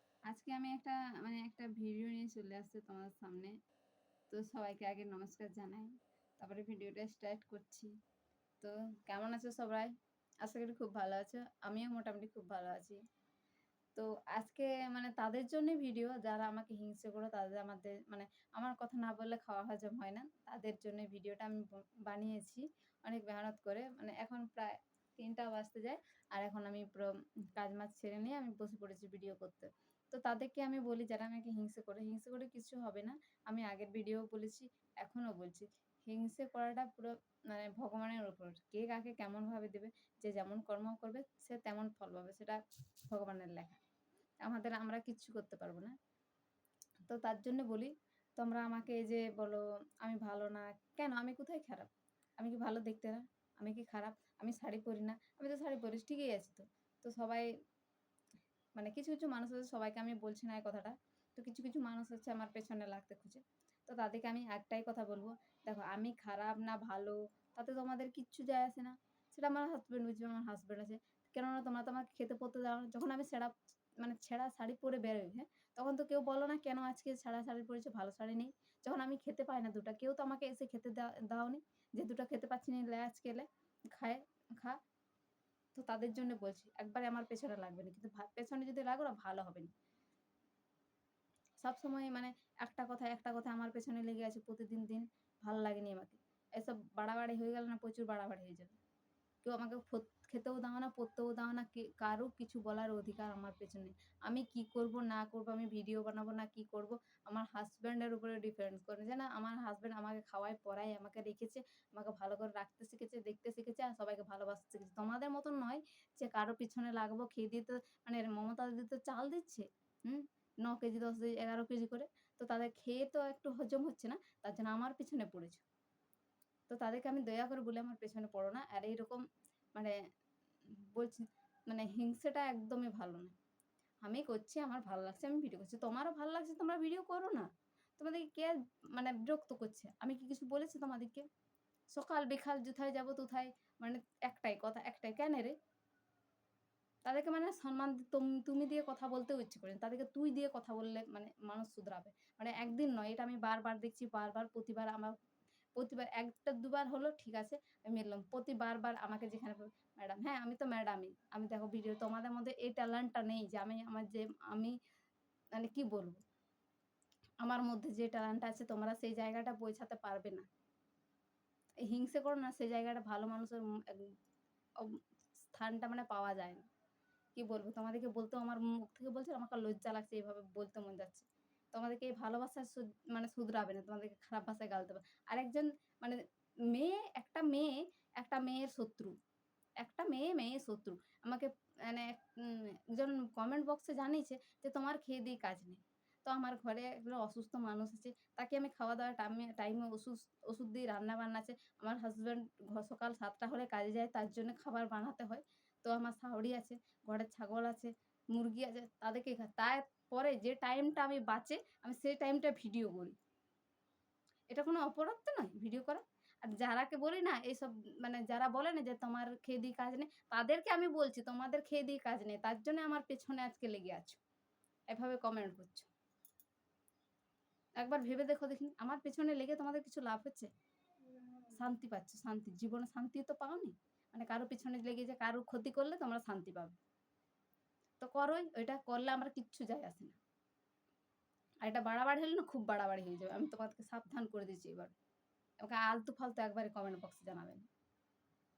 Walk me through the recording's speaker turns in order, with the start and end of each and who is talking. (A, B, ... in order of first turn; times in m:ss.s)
0:00.3-0:03.6 A
0:04.3-0:07.9 A
0:08.6-0:13.0 A
0:14.0-0:43.8 A
0:44.4-0:46.0 A
0:47.1-0:57.5 A
0:58.8-1:24.8 A
1:25.8-1:29.7 A
1:31.6-1:38.8 A
1:39.4-2:05.6 A
2:06.7-2:09.2 A
2:10.7-2:13.4 A
2:14.0-2:21.3 A
2:21.9-2:25.6 A
2:27.0-2:35.2 A
2:35.8-2:44.8 A
2:45.5-2:46.2 A
2:47.4-2:50.5 A
2:51.8-2:54.2 A
2:54.8-2:56.6 A
2:57.4-3:09.2 A
3:09.8-3:33.2 A
3:34.5-3:44.2 A
3:44.9-3:45.9 A
3:47.8-3:50.5 A
3:51.5-3:56.8 A
3:58.0-4:00.2 A
4:01.6-4:05.0 A
4:05.6-4:07.7 A